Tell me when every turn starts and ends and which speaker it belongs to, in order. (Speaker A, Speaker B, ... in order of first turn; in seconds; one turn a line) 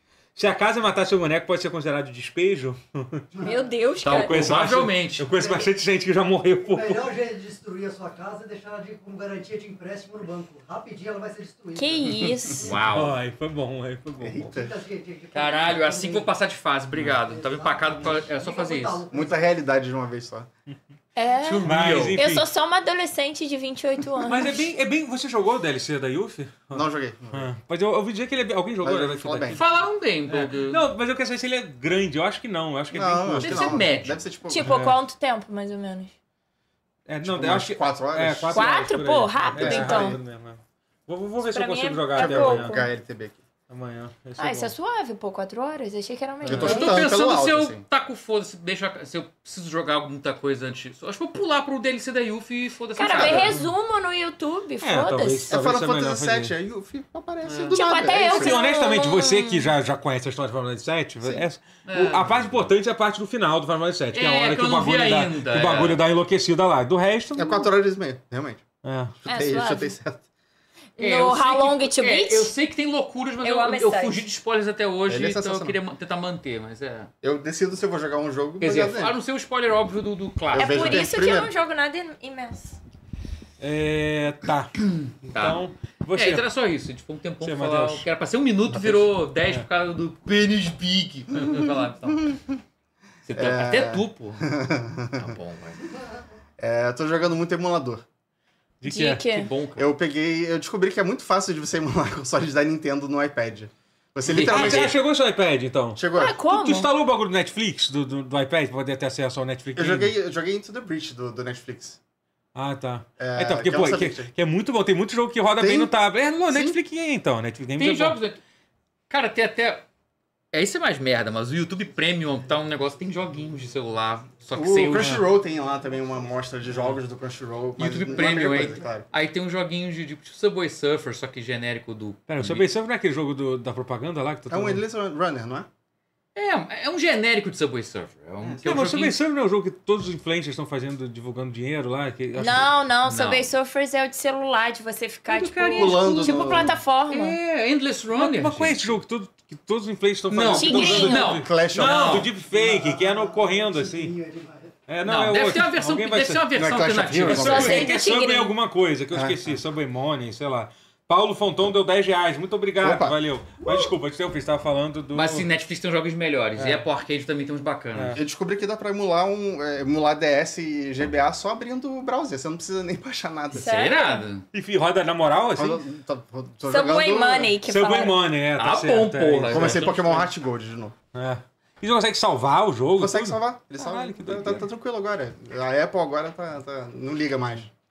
Speaker A: 0.4-3.2
Speaker B: 3.4-4.4
Speaker C: 4.0-5.3
Speaker A: 4.0-7.1
Speaker B: 5.4-5.7
Speaker D: 6.6-12.8
Speaker B: 11.8-12.7
Speaker C: 12.6-13.2
Speaker A: 12.9-14.5
Speaker E: 14.2-14.7
Speaker D: 14.5-16.3
Speaker C: 15.3-19.1
Speaker D: 17.2-19.4
Speaker E: 19.1-20.5
Speaker B: 21.2-24.6
Speaker C: 21.4-22.2
Speaker A: 21.6-22.5
Speaker A: 24.3-29.7
Speaker E: 26.7-27.5
Speaker E: 28.8-29.6
Speaker C: 29.5-30.8
Speaker A: 30.3-33.9
Speaker E: 32.9-34.6
Speaker C: 33.4-34.2
Speaker B: 34.5-36.1
Speaker A: 34.5-35.0
Speaker A: 37.1-42.9
Speaker E: 37.2-38.6
Speaker B: 38.5-40.2
Speaker E: 39.5-40.2
Speaker B: 41.4-42.9
Speaker E: 42.1-43.4
Speaker A: 43.7-44.7
Speaker B: 44.4-47.0
Speaker E: 46.5-47.8
Speaker A: 46.5-46.7
Speaker C: 46.5-53.5
Speaker B: 53.0-55.6
Speaker E: 53.1-53.5
Speaker A: 54.8-56.5
Speaker E: 55.5-58.6
Speaker C: 57.4-57.8
Speaker B: 57.7-59.7
Speaker A: 58.1-67.7
Speaker C: 61.9-62.7
Speaker C: 64.1-66.0
Speaker E: 67.4-68.7
Speaker A: 68.8-69.2
Speaker E: 69.2-70.2
Speaker B: 69.3-70.0
Speaker B: 71.0-72.5
Speaker C: 71.0-77.1
Speaker B: 73.4-74.2
Speaker E: 75.1-75.8
Speaker E: 77.2-79.2
Speaker C: 78.6-81.1
Speaker E: 80.5-81.5
Speaker B: 80.6-82.8
Speaker A: 83.6-84.7
Speaker C: 84.8-85.6
Speaker A: 85.2-86.5
Speaker C: 86.2-92.4
Speaker A: 87.4-88.1
Speaker C: 93.3-94.5
Speaker E: 93.4-95.3
Speaker C: 95.2-95.8
Speaker E: 96.6-98.0
Speaker A: 98.8-99.2
Speaker B: 98.8-99.5
Speaker C: 99.1-99.9
Speaker E: 99.8-105.0
Speaker C: 104.2-105.0
Speaker A: 104.3-110.1
Speaker E: 106.0-106.4
Speaker B: 106.1-106.9
Speaker E: 109.8-112.0
Speaker A: 112.5-118.2
Speaker E: 113.2-114.3
Speaker E: 115.6-115.9
Speaker E: 116.5-116.8
Speaker C: 117.8-118.4
Speaker C: 119.1-119.8
Speaker C: 120.5-125.2
Speaker E: 124.6-129.1
Speaker A: 124.9-125.3
Speaker C: 127.8-132.7
Speaker D: 128.2-128.6
Speaker A: 132.3-134.8
Speaker E: 134.5-135.7
Speaker C: 136.3-139.2
Speaker A: 138.6-142.8
Speaker B: 142.3-147.4
Speaker C: 143.1-143.5
Speaker C: 145.3-149.0
Speaker E: 145.8-146.8
Speaker A: 148.2-154.1
Speaker C: 150.3-152.3
Speaker B: 150.5-151.4
Speaker E: 151.2-152.3
Speaker D: 152.4-154.8
Speaker A: 154.9-156.5
Speaker C: 155.0-157.9
Speaker E: 156.5-157.9
Speaker A: 157.2-165.5
Speaker B: 157.3-158.5
Speaker E: 159.1-159.6
Speaker E: 162.8-163.2
Speaker C: 165.1-168.2
Speaker A: 166.6-166.8
Speaker A: 167.9-168.2
Speaker E: 168.1-173.9
Speaker B: 173.5-174.2
Speaker C: 173.6-174.5
Speaker A: 174.5-175.8
Speaker E: 175.6-177.6
Speaker B: 176.7-178.2
Speaker A: 177.6-179.9
Speaker C: 178.6-180.3
Speaker E: 179.5-180.9
Speaker A: 181.1-184.6
Speaker E: 183.0-187.7